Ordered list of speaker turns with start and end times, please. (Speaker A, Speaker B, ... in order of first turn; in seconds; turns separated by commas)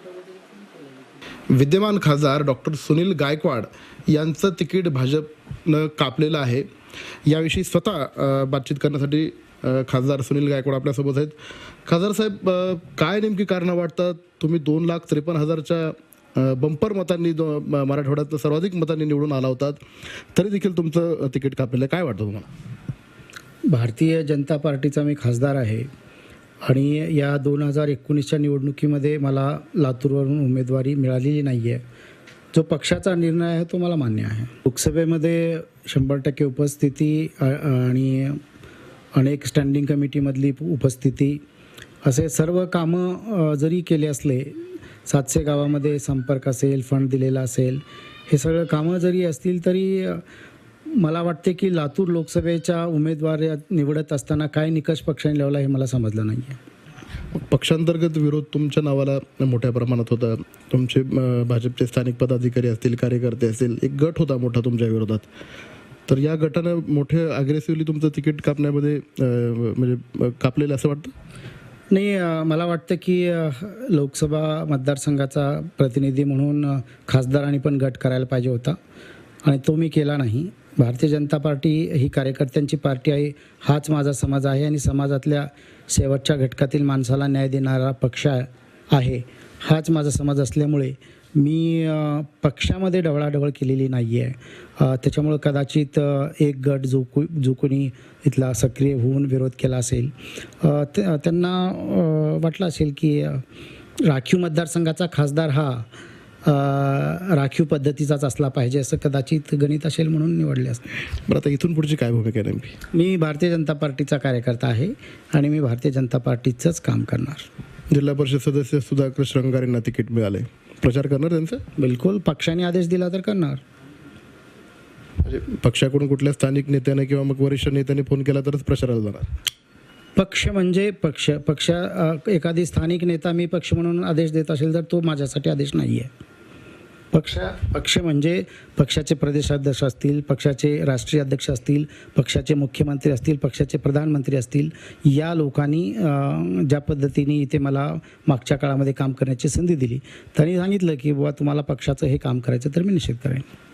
Speaker A: 1.5-6.7, Speaker A: 7.3-11.4, Speaker A: 11.9-19.8, Speaker A: 20.4-22.5, Speaker B: 23.7-25.9, Speaker B: 26.6-31.8, Speaker B: 32.5-38.4, Speaker B: 39.2-41.4, Speaker B: 42.0-50.2, Speaker B: 51.0-56.6, Speaker A: 57.3-65.3, Speaker A: 66.1-71.1, Speaker B: 71.9-78.8, Speaker B: 79.4-103.4, Speaker B: 104.0-105.9, Speaker B: 106.5-110.9, Speaker A: 111.3-112.8, Speaker B: 112.9-117.5, Speaker A: 117.9-121.6, Speaker B: 121.8-123.6, Speaker A: 125.2-129.3, Speaker B: 130.2-136.1, Speaker B: 137.1-153.5